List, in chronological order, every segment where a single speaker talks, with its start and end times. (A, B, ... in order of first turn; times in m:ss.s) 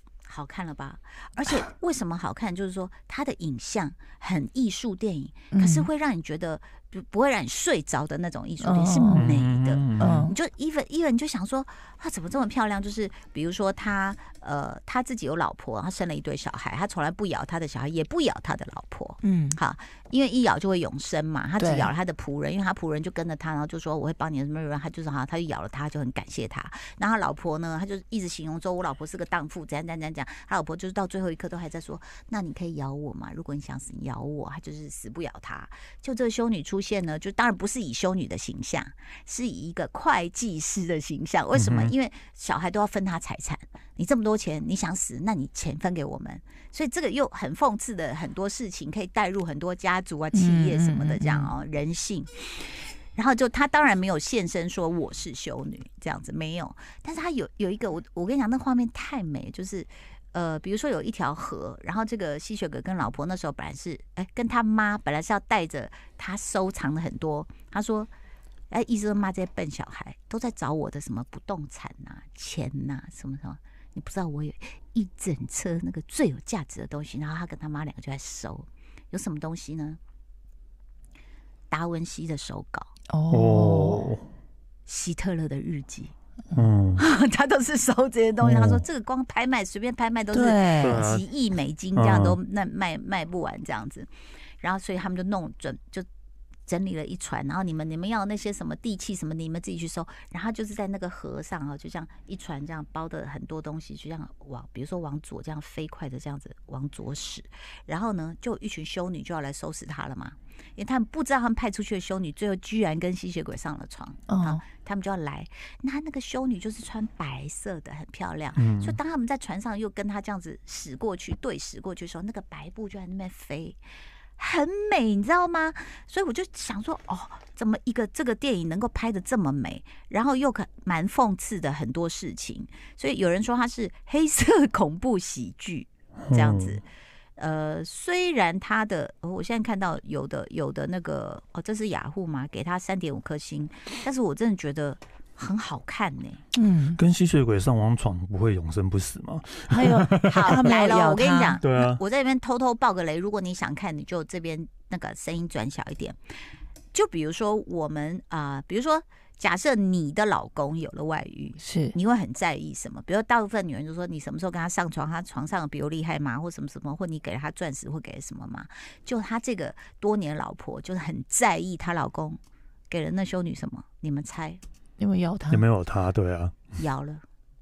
0:00.3-1:08.1 A
0:05.5-0:05.9 B
0:08.6-0:09.3 B
0:09.1-0:10.2 C
0:10.0-0:10.3 B
0:19.2-0:19.6 B
0:21.6-0:21.9 B
0:41.5-0:41.9 C
0:50.3-0:51.5 B
1:08.7-1:20.0 A
1:21.7-1:22.9 A
1:23.1-1:24.1 B
1:23.3-1:24.2 C
1:24.9-1:26.1 A
1:26.5-1:27.0 C
1:27.0-1:34.1 A
1:28.4-1:28.8 C
1:30.3-1:31.1 B
1:30.8-1:31.2 C
1:32.0-1:32.4 C
1:34.6-1:36.0 A
1:36.7-2:03.8 A
1:54.3-1:54.6 B
1:58.6-1:59.0 C
2:04.4-2:16.8 A
2:16.2-2:16.8 C
2:17.4-2:26.4 A
2:26.5-2:27.0 B
2:27.0-2:30.6 C
2:29.7-2:31.6 B
2:30.2-2:36.2 A
2:31.6-2:32.0 C
2:36.9-2:52.4 A
2:41.6-2:41.9 B
2:52.9-2:54.6 A
2:55.0-2:55.7 B
2:55.5-2:56.7 C
2:56.8-2:57.2 A